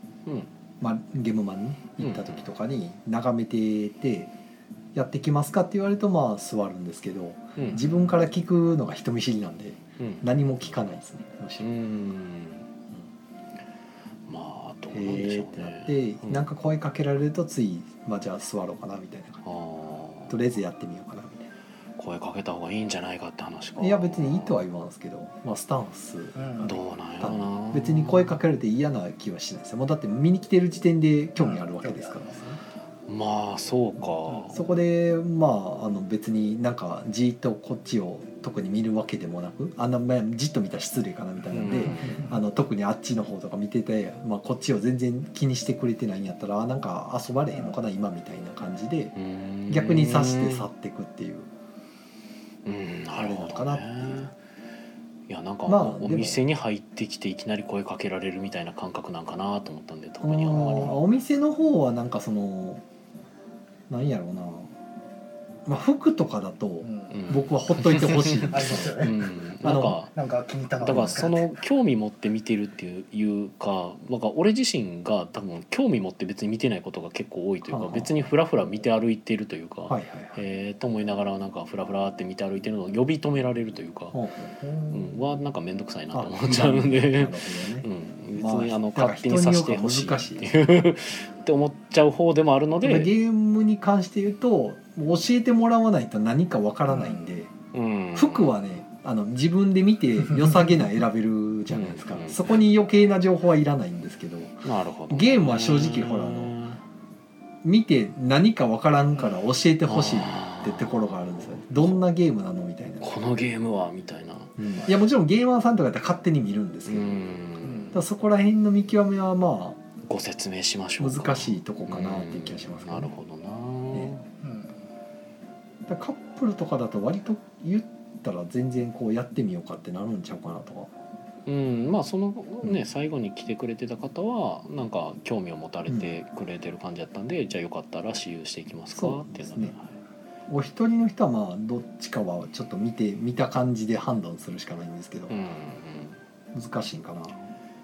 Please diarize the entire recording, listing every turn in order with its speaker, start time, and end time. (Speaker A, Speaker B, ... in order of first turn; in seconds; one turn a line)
Speaker A: 0.8-4.3
Speaker B: 2.0-2.5
Speaker A: 4.9-11.7
Speaker B: 7.6-7.8
Speaker B: 10.0-10.9
Speaker B: 11.6-12.7
Speaker B: 14.3-16.5
Speaker A: 14.9-19.4
Speaker B: 19.4-20.4
Speaker A: 20.3-21.5
Speaker B: 22.0-24.6
Speaker A: 23.8-32.3
Speaker C: 26.4-26.7
Speaker B: 26.6-28.4
Speaker C: 31.4-32.6
Speaker B: 33.1-34.6
Speaker A: 34.5-49.1
Speaker B: 41.5-42.3
Speaker C: 41.9-42.4
Speaker B: 49.1-50.7
Speaker A: 49.7-51.5
Speaker B: 52.6-54.3
Speaker A: 53.1-54.3
Speaker B: 55.3-61.0
Speaker A: 55.7-56.4
Speaker A: 60.2-62.8
Speaker C: 60.6-60.9
Speaker A: 63.9-64.7
Speaker A: 65.7-69.1
Speaker C: 66.8-67.3
Speaker B: 67.1-70.1
Speaker C: 68.5-71.6
Speaker A: 69.6-70.0
Speaker B: 70.8-84.2
Speaker A: 77.7-78.1
Speaker A: 79.9-80.4
Speaker A: 84.1-84.5
Speaker C: 84.6-85.2
Speaker B: 84.9-93.1
Speaker A: 86.1-90.6
Speaker A: 92.8-97.5
Speaker C: 96.9-97.2
Speaker B: 97.7-98.6
Speaker A: 98.1-106.5
Speaker B: 101.7-102.7
Speaker B: 104.6-106.8
Speaker A: 107.6-113.1
Speaker B: 109.8-111.0
Speaker B: 111.7-112.0
Speaker B: 113.0-114.6
Speaker A: 114.6-117.2
Speaker B: 116.9-118.0
Speaker C: 117.6-118.0
Speaker A: 117.9-119.8
Speaker B: 120.0-124.2
Speaker A: 121.0-123.1
Speaker C: 124.4-124.8
Speaker A: 125.9-130.9
Speaker B: 131.4-139.9
Speaker A: 135.9-136.1
Speaker A: 138.9-139.7
Speaker A: 140.5-145.4
Speaker B: 145.3-146.2
Speaker A: 146.5-147.4